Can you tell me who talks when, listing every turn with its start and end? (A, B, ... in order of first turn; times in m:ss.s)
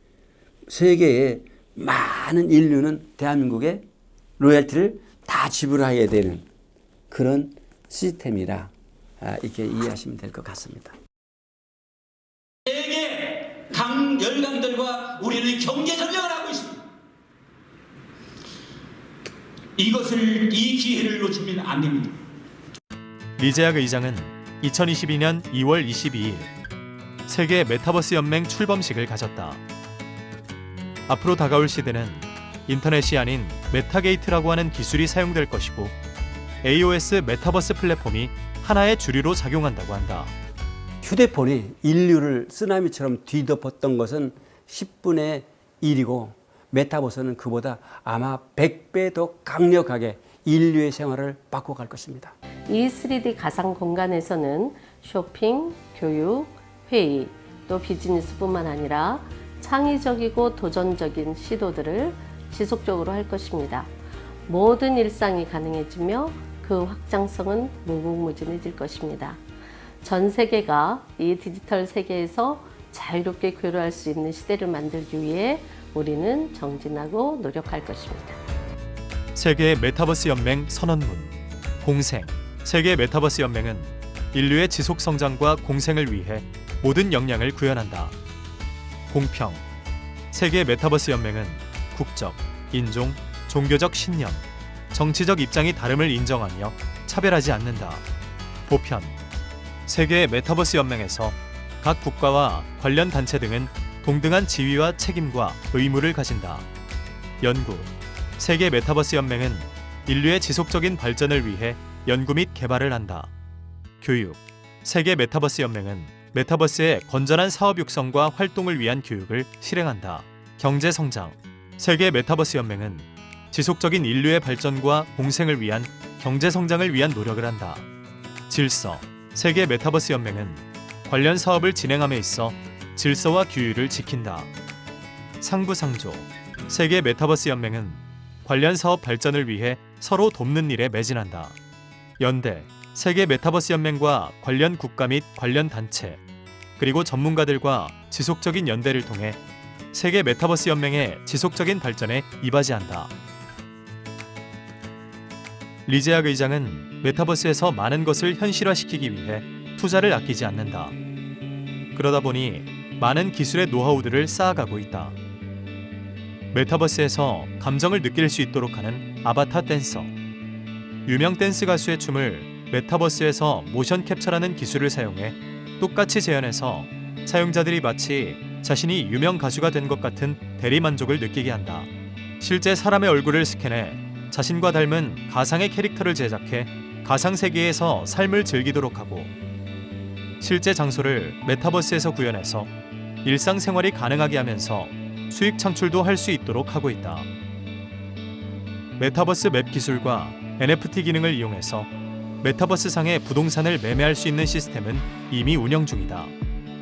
0:00.7-0:03.9 A
0:04.4-0:06.5 A
0:07.1-0:11.0 A
0:12.7-0:16.7 B
0:13.5-0:13.9 A
0:19.8-0:22.1 B
0:23.4-0:26.5 C
0:27.3-0:29.6 C
0:31.1-0:35.9 C
0:36.6-0:40.3 C
0:41.0-0:52.4 A
0:52.7-1:03.9 D
1:04.5-1:09.4 D
1:10.0-1:18.4 D
1:19.4-1:28.2 C
1:29.1-1:29.6 C
1:30.3-1:38.0 C
1:38.7-1:39.2 C
1:39.9-1:46.7 C
1:47.4-1:53.3 C
1:54.0-2:07.9 C
2:08.5-2:14.5 C
2:15.4-2:21.6 C
2:22.2-2:26.2 C
2:26.8-2:29.4 C
2:29.9-2:33.1 C
2:35.9-2:40.9 C
2:41.9-2:45.2 C
2:46.5-2:50.1 C
2:51.1-3:01.9 C
3:02.4-3:09.3 C
3:10.4-3:12.7 C
3:13.2-3:17.3 C
3:19.0-3:21.9 C
3:22.4-3:26.3 C